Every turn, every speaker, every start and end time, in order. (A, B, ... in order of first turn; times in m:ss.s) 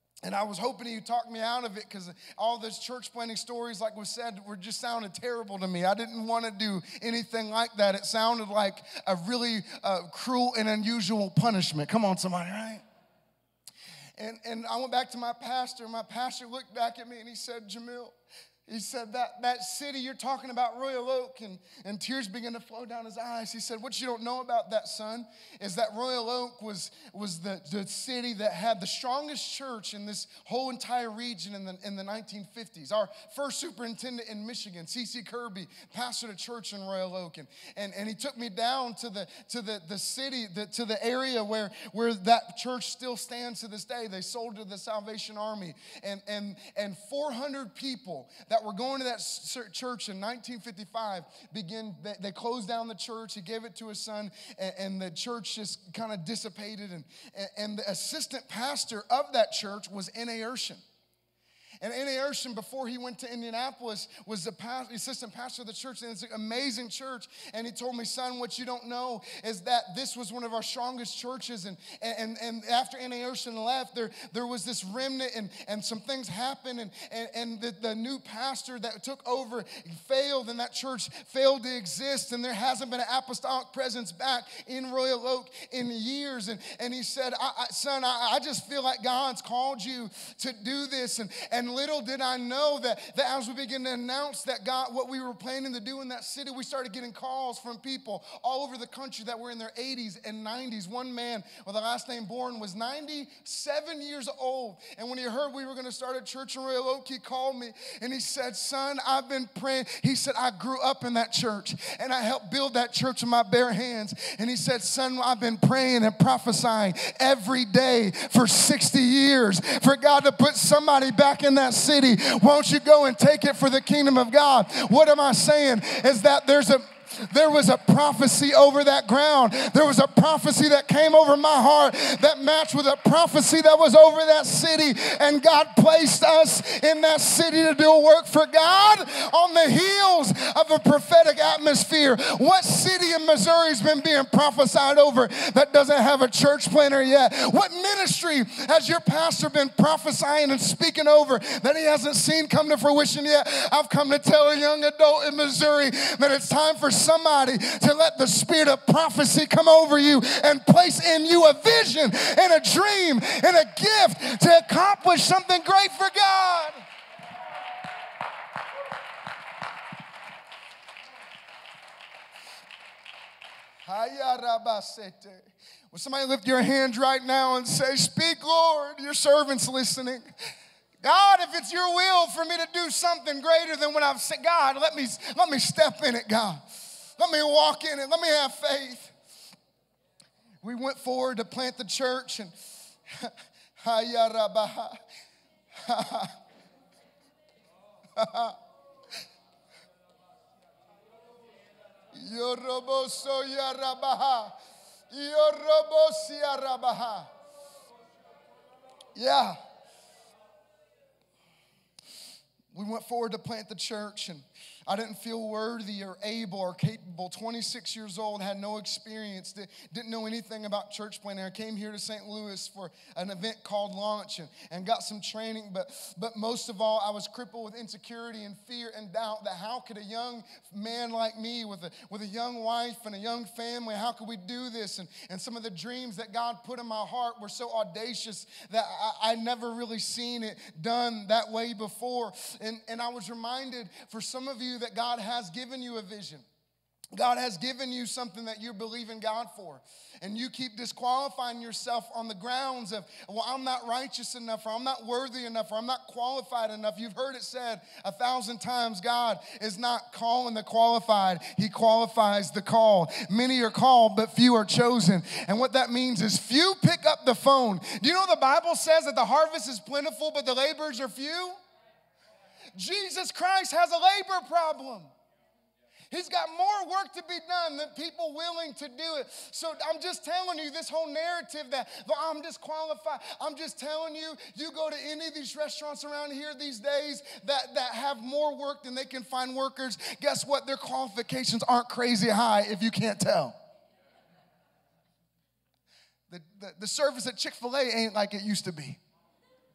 0:00.2-0:12.8 A
0:14.2-0:18.1 A
0:18.6-1:00.8 A
1:01.8-2:46.8 A
2:53.8-3:00.3 A
3:01.0-3:06.6 A
3:07.2-3:09.1 A
3:10.6-3:12.5 A
3:13.1-3:15.0 A
3:15.7-3:16.4 A
3:18.2-3:18.6 A
3:22.1-3:24.6 A
3:25.1-3:27.3 A
3:29.1-3:29.6 A
3:32.7-4:06.4 A
4:07.1-4:31.6 A
4:32.7-4:35.1 A
4:36.1-4:53.5 A
4:56.3-4:59.0 A